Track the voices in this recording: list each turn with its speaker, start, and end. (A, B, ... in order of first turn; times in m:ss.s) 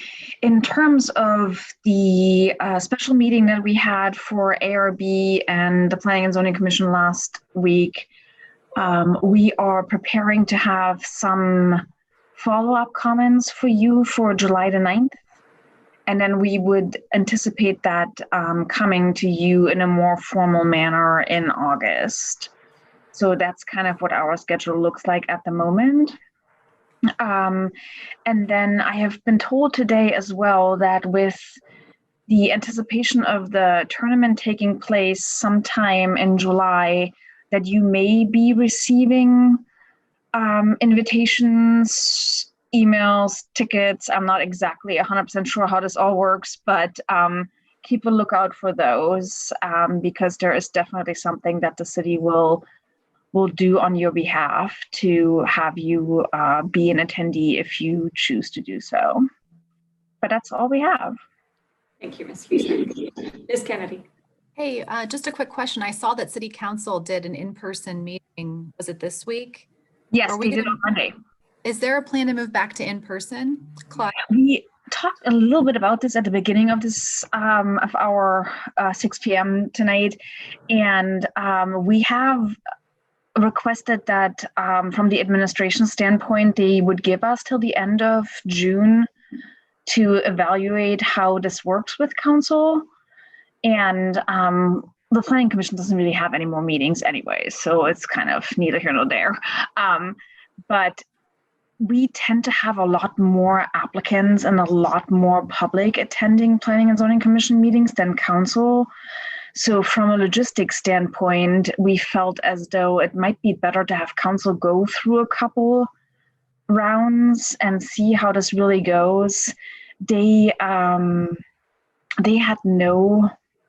0:00.4-0:08.1 A
0:08.7-0:11.8 A
0:12.4-0:15.2 A
0:16.1-0:22.5 A
0:23.1-0:26.2 A
0:27.2-0:27.7 A
0:28.2-0:31.6 A
0:32.3-0:39.6 A
0:40.3-0:52.6 A
0:53.3-0:59.2 A
1:00.2-1:01.1 A
1:02.0-1:04.0 B
1:04.6-1:09.7 C
1:10.1-1:11.1 A
1:10.3-1:10.7 C
1:11.6-1:14.1 C
1:14.2-1:20.2 A
1:20.7-1:22.6 A
1:23.3-1:29.1 A
1:29.8-1:32.8 A
1:33.6-1:40.2 A
1:40.7-1:41.0 A
1:41.8-1:48.9 A
1:49.5-1:55.9 A
1:56.7-2:01.4 A
2:02.2-2:03.3 A